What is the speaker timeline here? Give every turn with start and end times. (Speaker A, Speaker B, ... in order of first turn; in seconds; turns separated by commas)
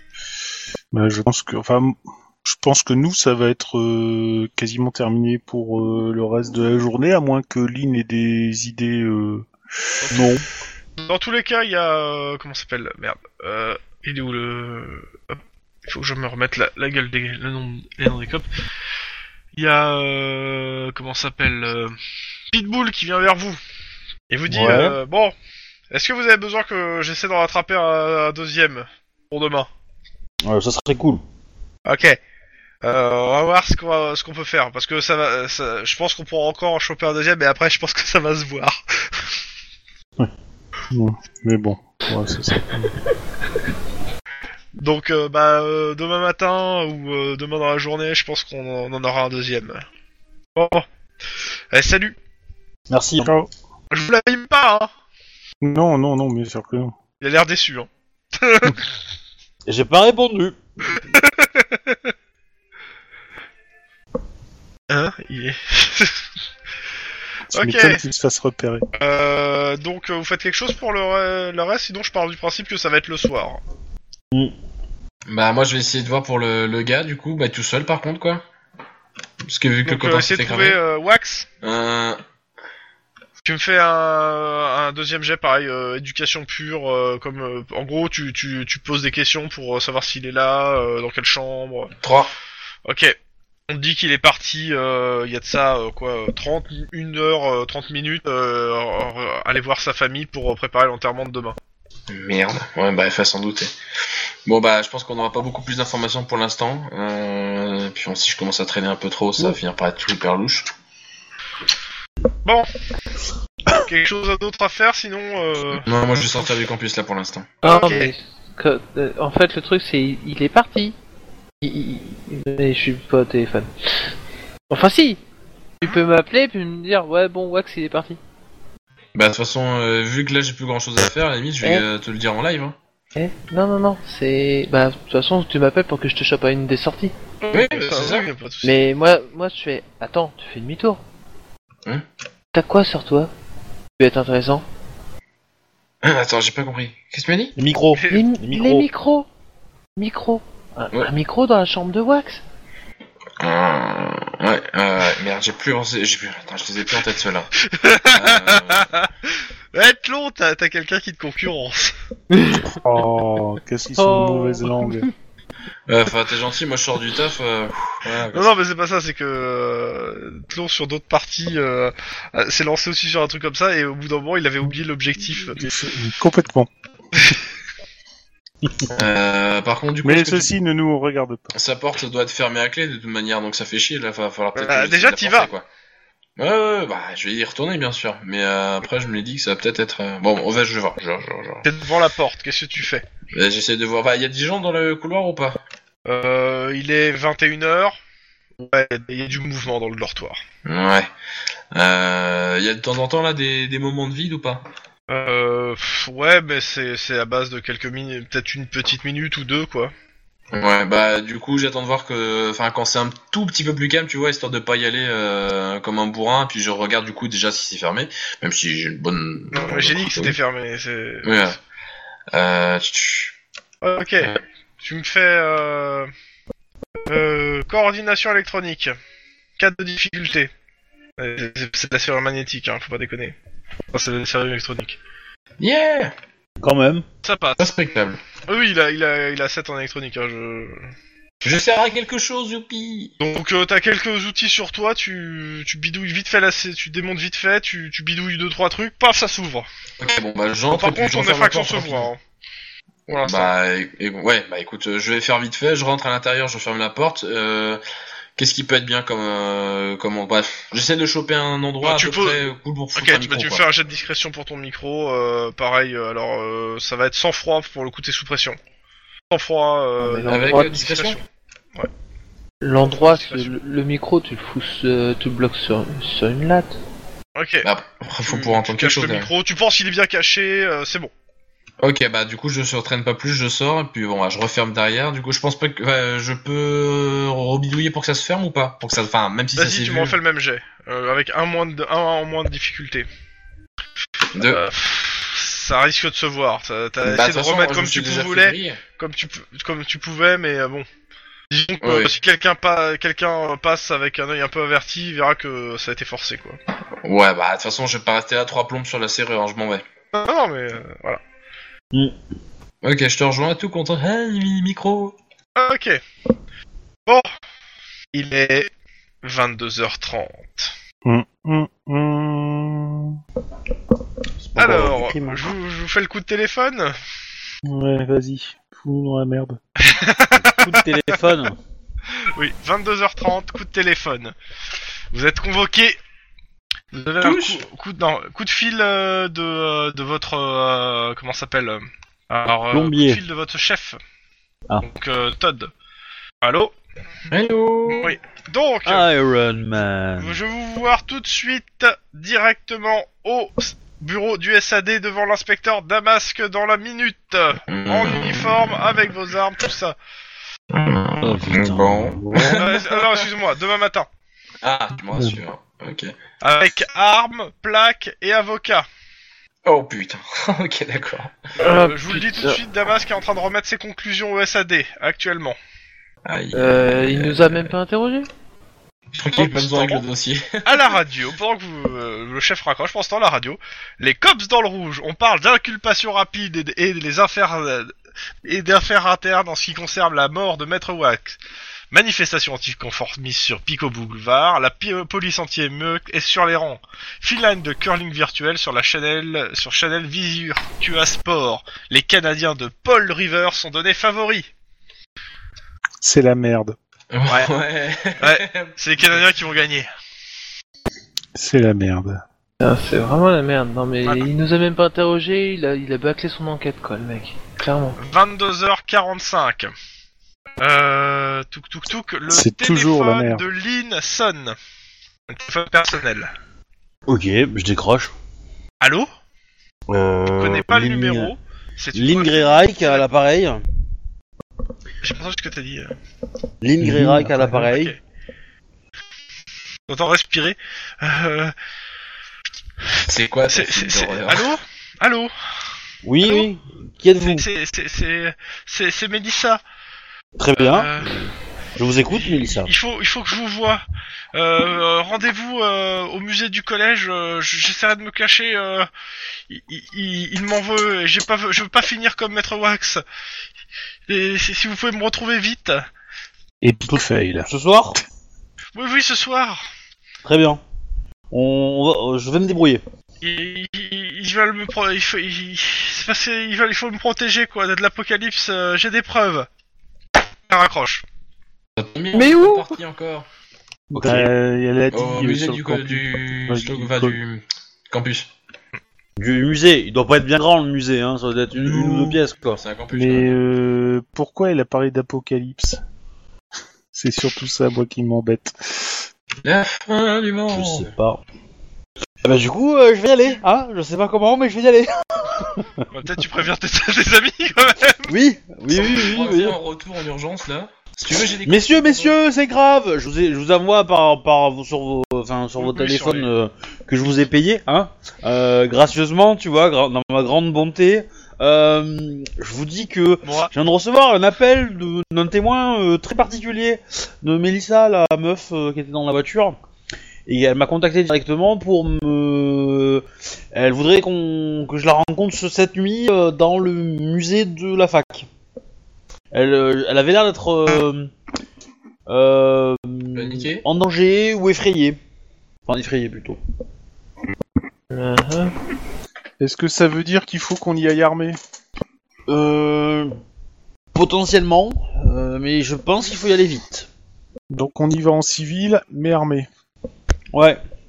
Speaker A: 0.9-9.5, Speaker B: 10.1-10.4, Speaker C: 11.0-18.4, Speaker C: 19.5-22.0, Speaker C: 22.5-23.6, Speaker C: 24.3-25.3, Speaker B: 24.5-25.0, Speaker C: 25.9-29.7, Speaker B: 30.4-31.2, Speaker C: 31.9-32.2, Speaker C: 32.8-39.2, Speaker A: 40.9-43.0, Speaker C: 44.8-49.8, Speaker C: 50.5-50.8, Speaker C: 51.7-52.1, Speaker B: 52.9-53.3, Speaker A: 53.2-53.5, Speaker C: 53.9-54.9, Speaker A: 55.6-56.9, Speaker C: 57.2-58.8, Speaker B: 59.6-60.6, Speaker C: 60.9-62.1, Speaker C: 64.9-66.2, Speaker A: 67.5-68.8, Speaker C: 67.5-68.0, Speaker C: 69.0-73.6, Speaker D: 75.3-78.4, Speaker D: 79.4-80.8, Speaker C: 79.8-81.5, Speaker D: 81.6-82.2, Speaker C: 83.4-91.9, Speaker D: 92.0-92.3, Speaker C: 92.9-93.2, Speaker C: 93.7-101.5, Speaker D: 102.1-103.7, Speaker D: 104.5-110.7, Speaker C: 113.8-115.9, Speaker D: 115.8-117.5, Speaker E: 117.6-121.0, Speaker C: 117.6-118.1, Speaker E: 121.6-123.7, Speaker E: 124.7-125.2, Speaker E: 125.8-128.2, Speaker D: 129.1-132.8, Speaker E: 133.1-137.1, Speaker C: 137.4-138.8, Speaker D: 137.5-138.2, Speaker E: 138.6-141.0, Speaker E: 142.5-143.3, Speaker E: 144.0-144.6, Speaker D: 146.0-147.6, Speaker B: 147.6-148.9, Speaker C: 147.9-148.2, Speaker E: 148.1-149.3, Speaker E: 149.9-152.4, Speaker D: 153.4-157.5, Speaker C: 157.6-161.9, Speaker D: 158.1-158.9, Speaker E: 162.3-162.8, Speaker A: 162.8-165.1, Speaker E: 164.0-165.1, Speaker D: 165.9-168.6, Speaker C: 168.3-175.6, Speaker A: 175.6-176.7, Speaker D: 178.9-180.5, Speaker A: 180.0-181.5, Speaker D: 181.5-185.7, Speaker C: 184.5-185.5, Speaker D: 186.4-191.6, Speaker C: 191.6-193.1, Speaker D: 193.3-195.6, Speaker C: 196.1-197.9, Speaker C: 198.6-200.4, Speaker D: 200.7-201.1, Speaker D: 201.7-204.7, Speaker C: 205.1-209.9, Speaker D: 210.5-220.4, Speaker C: 219.5-221.5, Speaker D: 221.2-221.6, Speaker D: 222.3-223.3, Speaker C: 223.8-226.1, Speaker C: 227.1-228.9, Speaker C: 229.6-230.5, Speaker C: 231.2-233.3, Speaker C: 233.9-235.0, Speaker D: 235.6-236.1, Speaker B: 236.6-237.0, Speaker C: 237.2-237.7, Speaker D: 237.6-238.2, Speaker C: 238.5-240.8, Speaker D: 241.4-243.1, Speaker C: 243.2-249.7, Speaker D: 250.0-252.1, Speaker C: 250.7-252.2, Speaker D: 253.1-257.8, Speaker C: 253.1-253.5, Speaker D: 258.4-263.6, Speaker C: 261.8-268.6, Speaker C: 269.3-271.2, Speaker E: 270.0-270.7, Speaker D: 270.2-271.2, Speaker E: 272.6-276.8, Speaker C: 272.8-273.5, Speaker C: 277.4-277.7, Speaker D: 277.6-279.3, Speaker C: 278.2-281.1, Speaker D: 281.8-290.1, Speaker C: 289.6-293.1, Speaker D: 294.3-294.6, Speaker C: 294.4-300.9, Speaker D: 297.0-298.8, Speaker C: 301.5-306.6, Speaker D: 301.8-302.1, Speaker D: 307.0-309.8, Speaker C: 310.1-311.2, Speaker D: 312.8-315.1, Speaker C: 315.6-316.0, Speaker C: 318.1-318.7, Speaker C: 319.2-320.7, Speaker A: 321.0-323.2, Speaker B: 324.4-325.4, Speaker C: 324.6-326.9, Speaker A: 327.6-329.6, Speaker C: 329.8-330.8, Speaker B: 330.4-331.6, Speaker C: 332.2-334.3, Speaker C: 335.1-336.0, Speaker C: 336.9-344.0, Speaker D: 337.2-337.6, Speaker B: 342.7-343.2, Speaker C: 344.8-345.7, Speaker C: 346.4-346.7, Speaker D: 347.3-348.1, Speaker C: 348.0-349.1, Speaker B: 348.9-350.4, Speaker C: 350.2-359.9, Speaker D: 357.7-358.4, Speaker D: 360.7-363.2, Speaker B: 361.2-362.5, Speaker C: 362.4-364.1, Speaker D: 364.6-366.1, Speaker A: 365.1-365.4, Speaker C: 366.4-368.9, Speaker D: 369.6-371.4, Speaker E: 371.6-372.6, Speaker C: 371.6-375.6, Speaker D: 376.2-377.7, Speaker E: 376.5-378.3, Speaker D: 379.1-380.9, Speaker C: 379.3-380.1, Speaker C: 380.6-387.9, Speaker C: 388.4-391.4, Speaker C: 391.9-404.5, Speaker A: 406.0-406.8, Speaker D: 407.1-409.2, Speaker C: 408.2-409.9, Speaker A: 411.3-412.2, Speaker E: 412.6-418.0, Speaker C: 414.0-414.3, Speaker C: 418.0-419.7, Speaker C: 420.6-424.6, Speaker A: 422.3-423.4, Speaker C: 425.3-426.3, Speaker B: 427.1-428.1, Speaker C: 428.8-429.1, Speaker B: 429.9-431.3, Speaker C: 430.3-433.0, Speaker B: 431.9-433.6, Speaker C: 435.0-435.9, Speaker B: 436.6-437.9, Speaker A: 436.8-437.7, Speaker C: 437.6-438.0, Speaker C: 439.9-441.5, Speaker D: 443.1-444.6, Speaker C: 443.5-445.3, Speaker B: 446.0-447.4, Speaker C: 447.2-449.6, Speaker B: 450.4-452.7, Speaker C: 450.6-451.2, Speaker C: 452.1-453.8, Speaker C: 454.3-458.9, Speaker C: 459.5-463.0, Speaker C: 464.1-465.9, Speaker A: 466.6-467.5, Speaker B: 467.5-468.0, Speaker C: 468.7-469.6, Speaker B: 470.2-470.6, Speaker B: 471.3-472.8, Speaker C: 473.2-479.5, Speaker C: 480.5-481.0, Speaker D: 481.8-483.3, Speaker E: 482.1-482.8, Speaker B: 483.9-484.3, Speaker A: 483.9-487.2, Speaker D: 484.9-488.3, Speaker B: 489.2-492.6, Speaker D: 491.6-493.3, Speaker A: 492.9-495.8, Speaker A: 496.9-499.1, Speaker D: 499.4-500.9, Speaker B: 500.5-501.2, Speaker B: 502.2-505.6, Speaker C: 505.9-508.1, Speaker B: 508.1-509.6, Speaker D: 508.7-512.2, Speaker B: 511.4-529.6, Speaker C: 515.6-516.3, Speaker C: 523.2-523.5, Speaker B: 530.3-538.3, Speaker B: 539.3-541.1, Speaker B: 542.1-545.0, Speaker D: 543.1-543.6, Speaker B: 545.7-546.4, Speaker E: 547.9-548.5, Speaker A: 549.4-551.4, Speaker B: 552.3-553.1, Speaker B: 553.9-556.9, Speaker A: 557.5-559.5, Speaker B: 560.3-560.6